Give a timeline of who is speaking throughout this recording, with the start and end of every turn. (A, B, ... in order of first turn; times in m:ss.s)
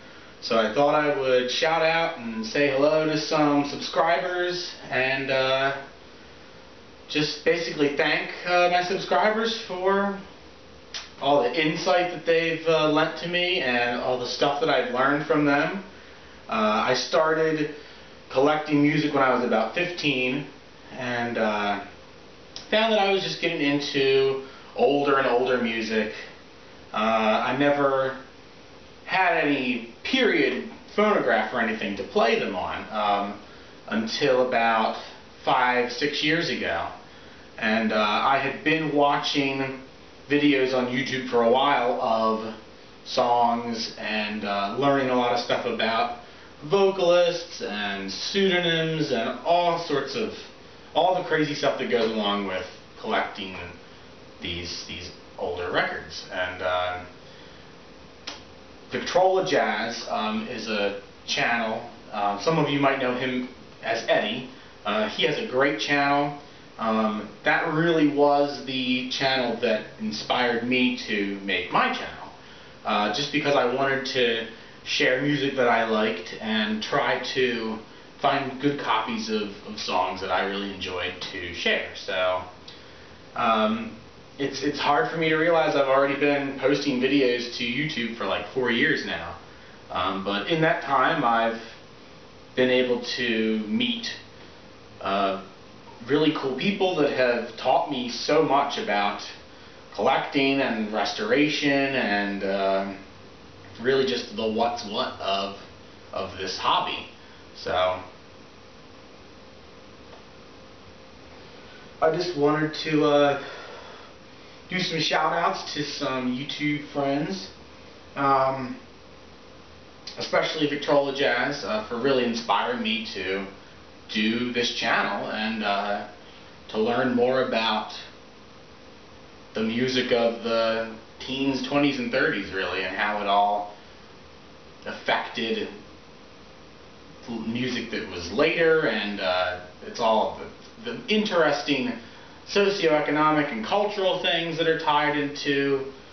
0:00.4-0:05.8 A
0:07.1-0:10.2 A
0:11.2-0:15.8 A
0:16.5-0:17.7 A
0:18.3-0:21.8 A
0:22.7-0:26.2 A
0:26.9-0:28.2 A
0:29.0-0:36.9 A
0:37.6-0:42.5 A
0:43.0-0:53.8 A
0:54.4-0:57.0 A
0:58.9-1:12.3 A
1:12.8-1:22.5 A
1:23.4-1:29.4 A
1:29.9-1:31.8 A
1:32.5-1:34.2 A
1:35.0-1:35.4 A
1:36.0-1:39.3 A
1:39.9-1:43.0 A
1:43.8-1:48.0 A
1:52.0-1:53.9 A
1:54.7-1:57.5 A
1:58.2-1:58.8 A
2:00.2-2:03.5 A
2:04.1-2:06.1 A
2:06.7-2:08.0 A
2:09.5-2:13.7 A
2:14.8-2:15.7 A
2:17.2-2:25.9 A